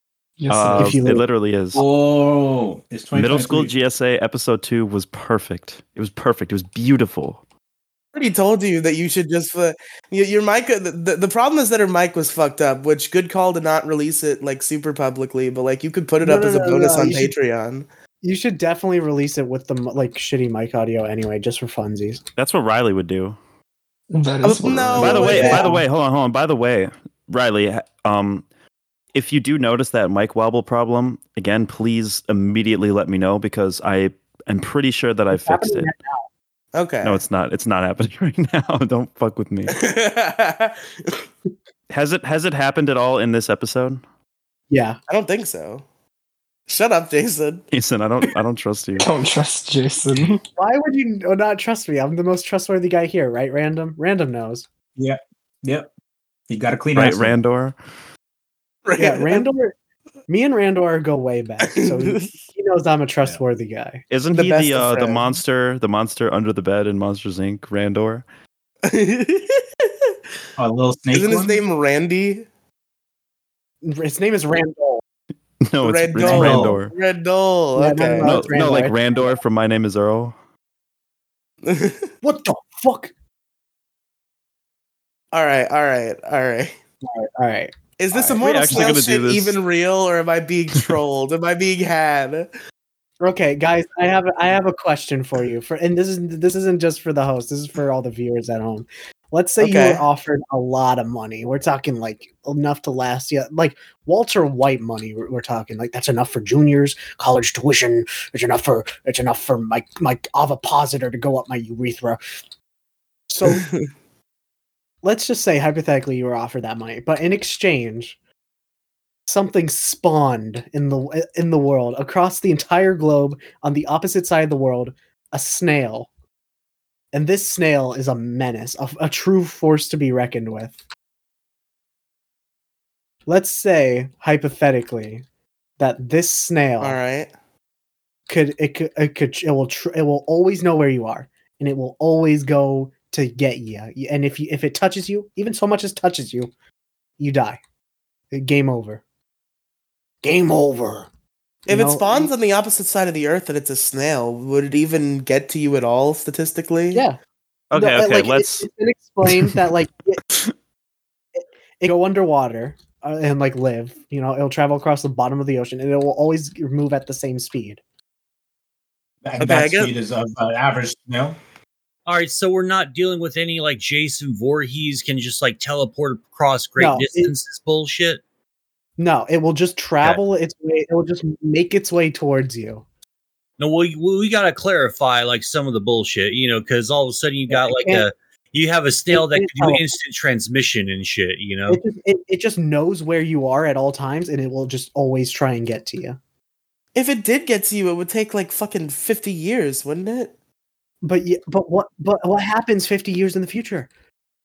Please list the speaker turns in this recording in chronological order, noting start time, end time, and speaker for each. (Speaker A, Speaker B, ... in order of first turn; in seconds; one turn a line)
Speaker A: 0.4-1.0
Speaker B: 0.5-1.8
Speaker C: 0.7-1.2
Speaker D: 1.7-3.7
Speaker B: 3.1-7.4
Speaker E: 8.1-17.9
Speaker C: 16.2-17.3
Speaker C: 18.2-22.2
Speaker B: 22.4-23.4
Speaker A: 24.1-25.7
Speaker E: 24.4-25.8
Speaker B: 25.0-28.4
Speaker C: 25.2-25.7
Speaker B: 29.1-35.9
Speaker C: 35.3-36.2
Speaker E: 36.7-37.2
Speaker B: 37.0-39.8
Speaker E: 39.7-41.2
Speaker B: 41.9-44.0
Speaker C: 44.7-45.0
Speaker E: 45.1-45.8
Speaker E: 46.7-47.6
Speaker B: 47.7-49.1
Speaker A: 49.0-50.4
Speaker C: 50.6-54.6
Speaker D: 55.0-55.9
Speaker D: 56.5-57.4
Speaker B: 56.9-57.8
Speaker E: 58.8-59.4
Speaker C: 59.0-59.7
Speaker C: 60.3-64.0
Speaker E: 61.7-62.3
Speaker B: 64.1-68.2
Speaker E: 64.3-65.4
Speaker E: 68.8-70.1
Speaker D: 70.6-71.6
Speaker E: 71.1-72.5
Speaker C: 73.8-75.0
Speaker B: 75.6-76.9
Speaker E: 75.8-78.6
Speaker D: 76.2-76.8
Speaker C: 77.8-79.4
Speaker B: 78.2-80.3
Speaker E: 81.6-82.1
Speaker C: 82.2-83.1
Speaker E: 85.3-86.7
Speaker C: 87.0-88.3
Speaker E: 88.0-92.5
Speaker B: 88.4-89.6
Speaker C: 93.2-112.2
Speaker E: 99.6-100.0
Speaker C: 113.3-113.7
Speaker E: 113.5-113.9
Speaker C: 115.0-118.2
Speaker C: 119.3-126.1
Speaker C: 127.1-130.8
Speaker C: 133.3-135.2
Speaker C: 135.8-137.0
Speaker E: 136.8-137.3
Speaker C: 138.3-146.5
Speaker C: 147.2-147.6
Speaker C: 148.3-149.0
Speaker C: 150.2-151.1
Speaker E: 151.7-157.0
Speaker C: 151.7-152.3
Speaker C: 156.9-157.2
Speaker B: 157.7-158.7
Speaker C: 157.7-160.2
Speaker B: 159.3-159.5
Speaker C: 161.4-167.8
Speaker D: 169.2-171.4
Speaker E: 169.4-169.9
Speaker F: 172.1-178.2
Speaker C: 176.8-177.3
Speaker C: 179.0-182.8
Speaker F: 183.6-191.8
Speaker C: 187.5-188.1
Speaker C: 189.1-189.9
Speaker C: 191.7-196.2
Speaker E: 196.9-200.3
Speaker C: 201.0-203.9